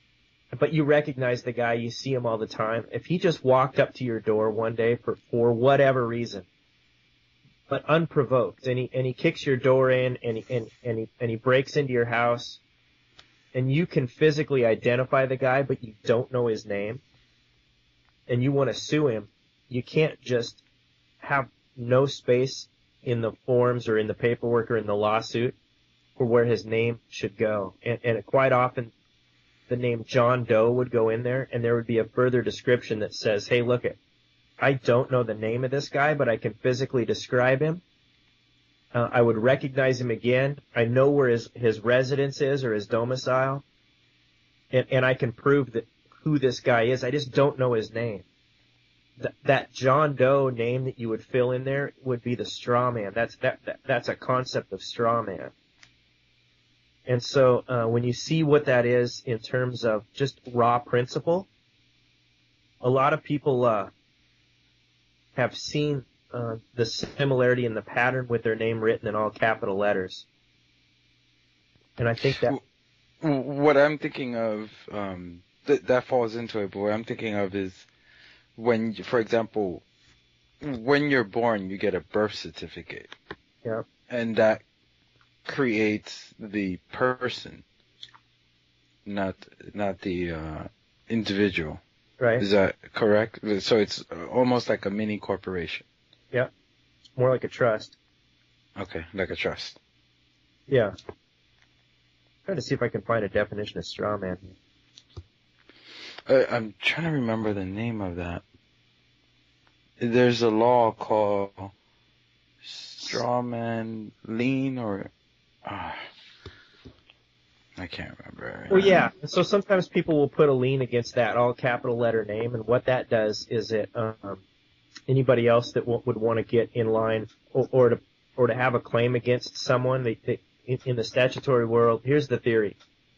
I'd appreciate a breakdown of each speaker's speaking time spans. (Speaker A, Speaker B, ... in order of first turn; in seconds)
Speaker A: 0.5-6.5, 7.7-12.6, 13.5-17.0, 18.3-20.6, 21.2-25.6, 26.2-28.9, 29.7-34.0, 34.6-37.8, 38.9-43.6, 44.7-48.2, 49.2-55.5, 57.1-61.5, 62.8-63.9, 65.4-70.3, 72.0-72.6, 92.2-92.5, 97.2-98.0, 100.7-100.9, 102.5-104.5, 118.7-124.4, 125.1-132.8
Speaker B: 72.2-72.6, 73.2-77.9, 78.6-79.8, 80.6-83.1, 84.1-84.6, 85.5-87.6, 89.1-91.8, 92.4-95.8, 98.8-99.8, 106.3-108.4, 110.0-111.7, 112.6-115.1, 115.7-116.1, 117.8-119.0